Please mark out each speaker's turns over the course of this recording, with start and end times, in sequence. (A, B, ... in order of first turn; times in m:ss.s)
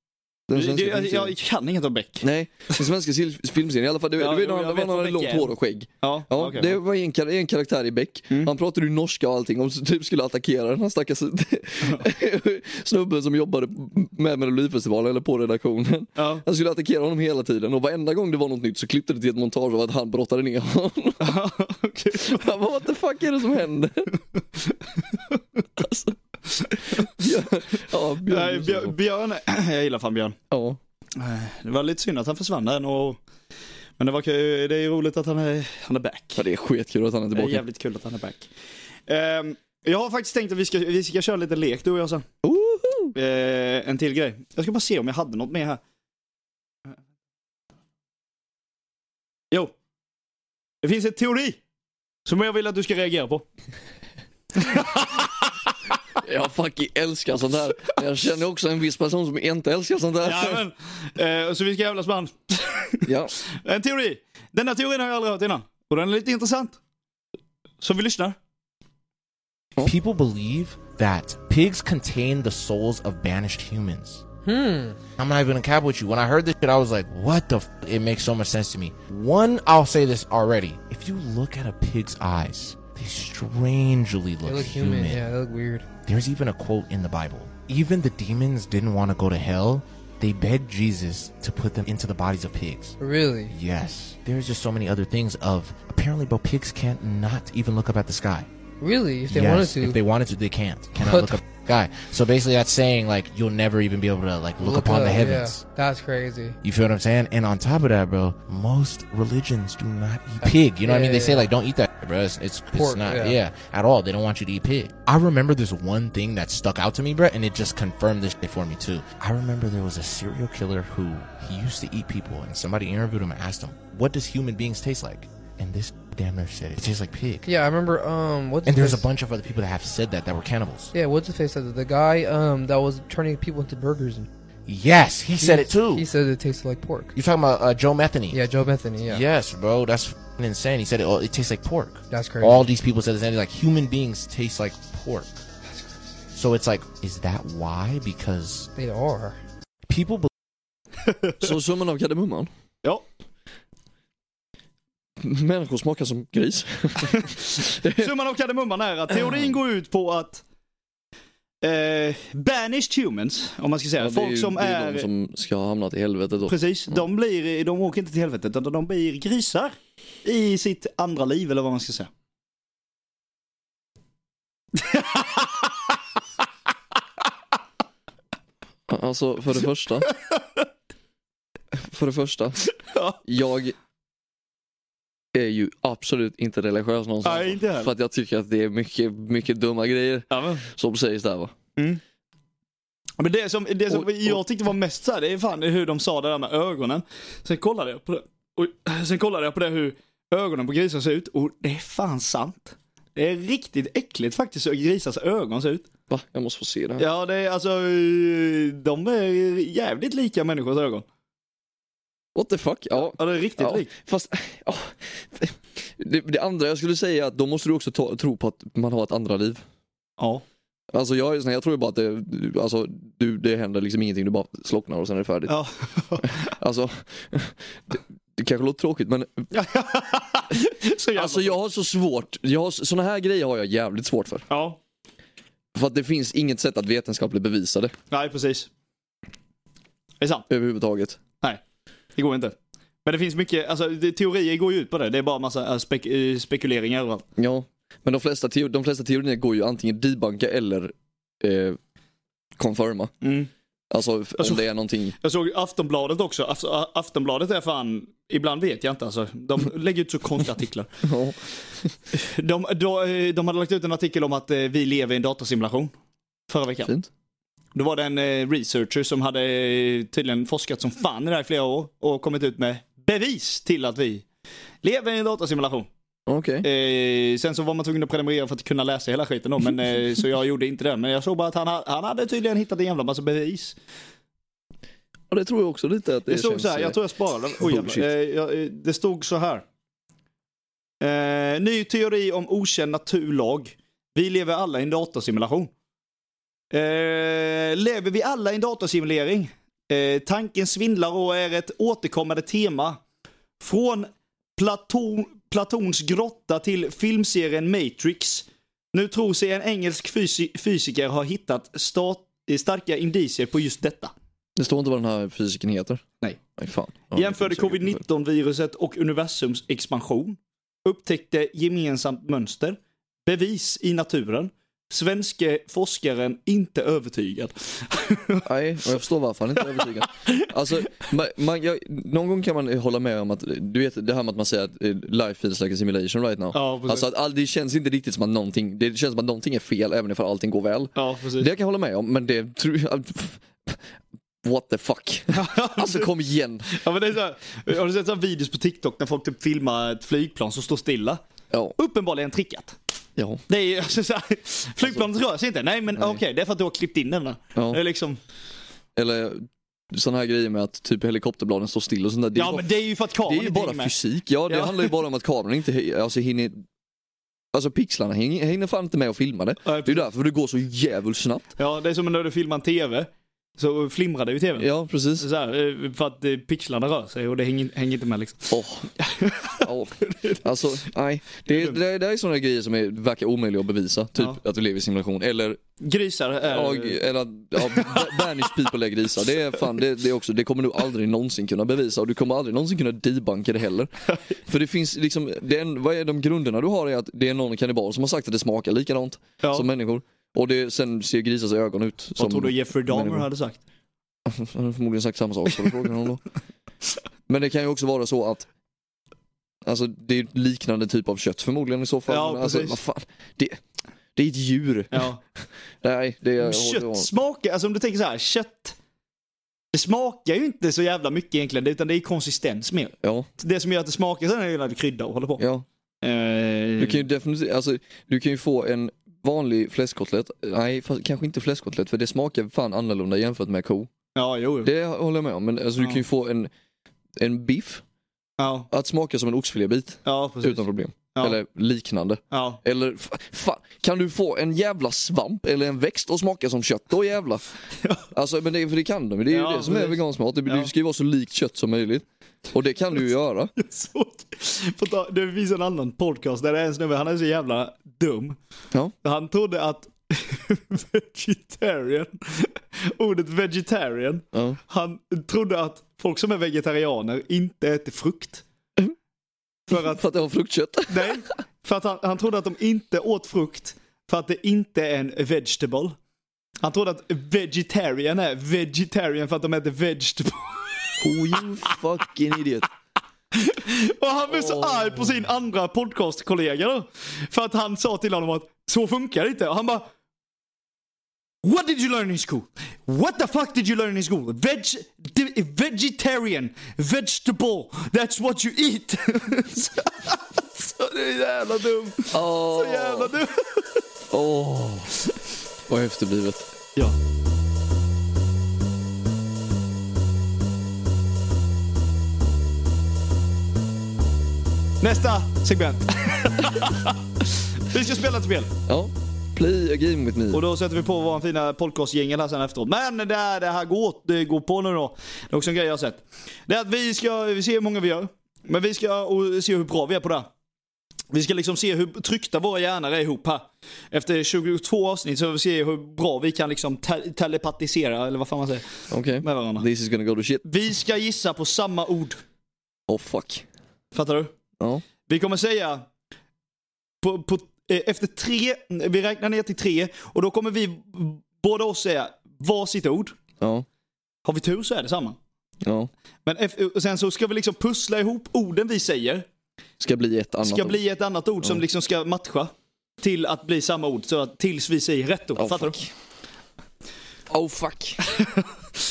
0:00.5-0:01.4 A
0:00.5-0:02.2 B
0:02.2-0:21.4 A
0:04.2-0:05.5 B
0:06.0-0:06.8 B
0:21.2-0:22.4 B
0:22.1-0:24.1 A
0:25.8-0:26.2 A
0:26.8-0:28.9 A
0:28.3-0:30.4 B
0:30.5-0:30.8 A
0:31.2-0:33.2 B
0:34.0-0:36.4 B
0:36.4-0:37.6 A
0:37.4-0:38.5 B
0:39.1-0:42.3 B
0:42.4-0:43.1 A
0:43.2-0:45.8 B
0:50.8-0:51.6 B
0:52.3-0:53.4 B
0:54.6-0:55.3 B
0:56.2-1:00.6 A
1:00.2-1:03.0 B
1:03.1-1:03.3 A
1:03.6-1:06.8 B
1:07.8-1:08.4 B
1:09.8-1:14.2 C
1:14.4-1:15.0 D
1:15.2-1:25.3 C
1:24.4-1:25.9 D
1:26.0-1:33.0 C
1:33.0-1:33.6 D
1:33.5-1:38.5 C
1:38.8-1:40.0 D
1:39.3-1:45.6 C
1:41.0-1:41.4 D
1:44.6-1:46.6 D
1:46.6-2:07.4 C
1:50.4-1:51.5 D
1:52.7-1:53.4 D
2:07.4-2:09.1 D
2:08.6-2:10.9 C
2:10.9-2:14.3 D
2:14.7-2:16.1 C
2:15.4-2:17.1 D
2:17.1-2:18.4 C
2:18.3-2:19.2 D
2:19.0-2:25.4 C
2:22.1-2:22.7 D
2:26.3-2:28.7 C
2:28.8-2:29.4 D
2:29.9-2:30.3 C
2:31.4-2:32.5 A
2:35.2-2:38.1 A
2:38.0-2:40.4 B
2:39.2-2:39.6 A
2:41.6-2:45.1 B
2:44.0-2:47.0 A
2:46.5-2:52.1 B
2:54.8-2:55.4 B
2:58.9-3:00.1 A
3:01.8-3:02.6 A
3:03.2-3:03.8 A
3:05.4-3:11.5 A
3:07.2-3:07.9 B
3:10.3-3:10.6 B
3:13.2-3:25.9 B
3:13.9-3:14.4 A
3:26.1-3:27.1 A
3:27.0-3:31.0 B
3:32.4-3:39.6 A
3:33.1-3:33.9 B
3:40.9-3:45.6 A
3:45.5-3:46.2 B
3:46.2-3:49.5 A
3:49.5-3:51.5 B
3:51.1-3:54.5 A
3:54.5-3:54.8 B
3:55.8-3:57.9 A
3:58.1-3:58.7 B
4:00.5-4:01.2 A
4:02.2-4:07.2 B
4:07.4-4:11.8 A
4:12.6-4:13.1 A
4:13.2-4:13.5 B
4:13.9-4:15.2 A
4:15.2-4:20.9 B
4:21.0-4:21.9 A
4:22.1-4:25.9 B
4:26.5-4:26.9 B
4:27.8-4:34.2 B
4:34.8-4:35.9 B
4:36.3-4:36.7 A
4:36.6-4:43.8 B
4:45.3-4:47.0 A
4:46.3-4:49.6 B
4:47.6-4:48.1 A
4:51.0-4:55.7 B
4:56.7-5:03.0 B
5:03.6-5:14.1 B
5:14.6-5:16.0 A
5:16.6-5:18.0 A
5:17.1-5:28.4 B
5:28.4-5:43.8 A
5:36.5-5:37.1 B
5:41.0-5:41.4 B
5:44.4-5:46.7 A
5:45.4-5:46.1 B
5:46.7-5:51.2 B
5:51.8-5:52.8 B
5:53.2-5:53.4 A
5:53.5-5:58.2 B
5:56.0-5:56.2 A
5:57.6-5:57.8 A
5:59.0-6:02.7 A
6:02.4-6:03.9 B
6:03.2-6:06.6 A
6:04.5-6:04.9 B
6:07.5-6:11.5 A
6:09.6-6:10.0 B
6:11.6-6:14.6 B
6:14.6-6:15.3 A
6:15.2-6:19.6 B
6:18.5-6:18.9 A
6:19.6-6:25.6 A
6:25.8-6:27.0 B
6:26.4-6:33.9 A
6:34.5-6:43.3 A
6:42.2-6:43.6 B
6:44.2-6:46.2 A
6:47.3-6:48.5 A
6:49.6-6:53.6 A
6:52.1-6:52.8 B
6:54.2-6:55.1 A
6:55.8-6:57.1 A
6:56.4-6:58.8 B
6:59.7-7:05.4 B
7:03.0-7:03.3 A
7:05.4-7:05.6 A
7:06.0-7:07.0 B
7:06.8-7:13.9 A
7:14.2-7:14.7 B
7:14.6-7:16.5 A
7:17.2-7:17.8 A
7:18.4-7:18.7 B
7:18.7-7:27.4 A
7:20.0-7:20.6 B
7:22.3-7:22.6 B
7:28.1-7:33.5 A
7:29.3-7:30.7 B
7:33.6-7:38.4 B
7:39.0-7:48.4 B
7:44.3-7:44.6 A
7:49.7-7:51.2 A
7:49.7-7:50.0 B
7:50.9-7:56.0 B
7:56.6-8:00.9 B
8:01.0-8:02.7 A
8:03.4-8:09.9 B
8:04.3-8:05.1 A
8:11.4-8:23.8 B
8:22.1-8:23.2 A
8:24.1-8:24.9 A
8:25.7-8:26.5 A
8:34.8-8:36.9 B
8:37.6-8:38.5 B
8:38.7-8:40.4 A
8:40.3-8:50.3 B
8:51.1-8:58.7 B
8:58.9-9:00.4 A
8:59.2-8:59.6 B
9:00.4-9:02.2 B
9:02.9-9:03.5 A
9:03.9-9:04.3 B
9:04.6-9:04.8 A
9:05.1-9:05.9 B
9:07.0-9:13.2 B
9:13.4-9:13.6 A
9:14.2-9:15.2 B
9:15.6-9:15.9 A
9:16.2-9:19.3 B
9:19.8-9:20.8 A
9:20.4-9:25.8 B
9:25.4-9:25.9 A
9:27.3-9:28.0 A